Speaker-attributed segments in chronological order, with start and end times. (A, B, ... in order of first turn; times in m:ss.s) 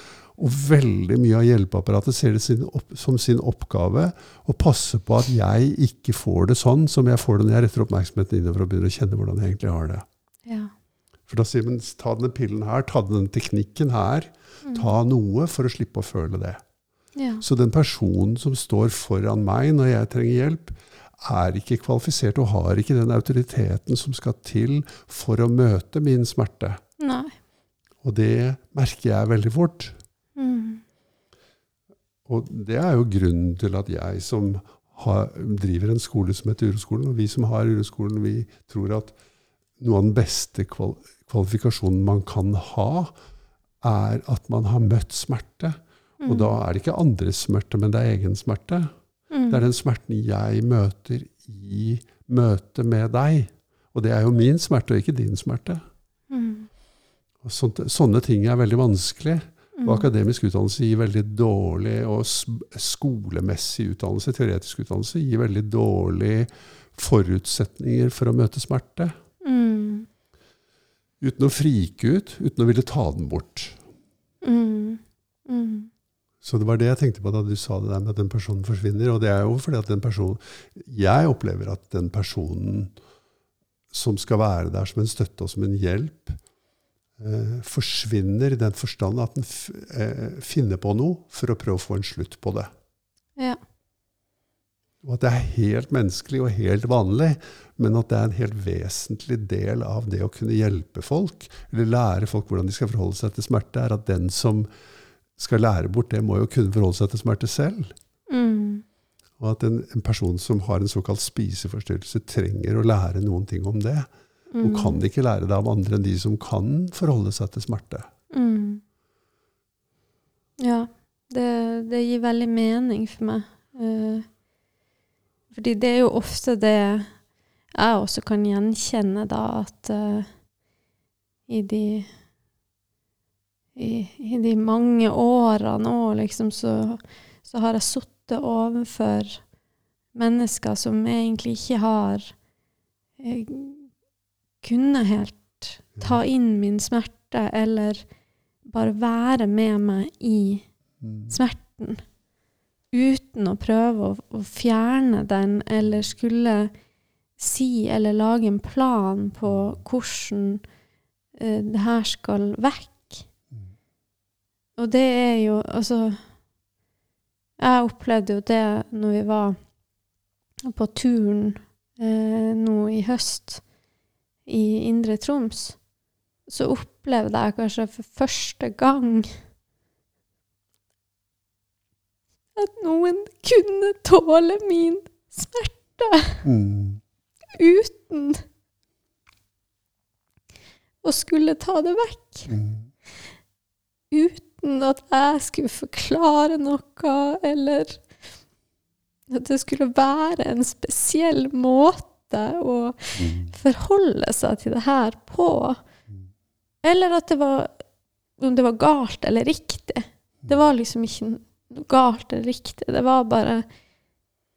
0:00.3-0:10.0 A
0:10.5-0:10.7 B
0:11.3-0:16.6 A
0:14.6-0:14.9 B
0:17.2-0:17.4 B
0:17.4-0:26.8 A
0:27.0-0:27.3 B
0:28.0-0:29.9 A
0:30.4-0:30.8 B
0:32.2-0:39.1 A
0:39.8-0:43.1 A
0:43.8-0:48.9 A
0:46.2-0:46.5 B
0:49.3-0:49.6 B
0:49.5-0:55.8 A
0:56.3-0:56.7 B
0:57.4-1:09.2 A
0:59.8-1:00.1 B
1:09.4-1:10.1 B
1:11.2-1:13.8 A
1:14.4-1:15.9 B
1:16.4-1:22.9 A
1:23.9-1:26.4 A
1:27.2-1:32.7 A
1:35.0-1:44.7 A
1:45.4-1:47.9 A
1:48.3-1:48.8 B
1:49.4-1:54.1 A
1:54.5-1:55.0 B
1:54.6-1:58.1 A
1:58.3-1:58.8 B
2:00.6-2:04.2 B
2:05.5-2:07.1 B
2:07.7-2:10.3 B
2:11.5-2:12.1 B
2:13.8-2:19.4 B
2:20.1-2:22.3 B
2:23.2-2:23.9 B
2:24.6-2:28.0 B
2:28.6-2:30.6 B
2:31.0-2:31.3 A
2:31.3-2:32.0 B
2:32.9-2:36.7 B
2:37.4-2:40.6 B
2:39.4-2:39.8 A
2:41.4-2:43.2 B
2:44.8-2:46.2 B
2:47.6-2:49.6 B
2:50.6-2:53.6 B
2:54.5-2:55.8 B
2:56.5-2:59.4 B
3:02.5-3:06.4 B
3:06.4-3:07.0 A
3:07.5-3:08.4 B
3:11.0-3:12.5 B
3:12.5-3:12.9 A
3:14.1-3:18.0 B
3:19.3-3:25.8 B
3:23.2-3:23.5 A
3:26.8-3:27.7 B
3:28.4-3:33.6 B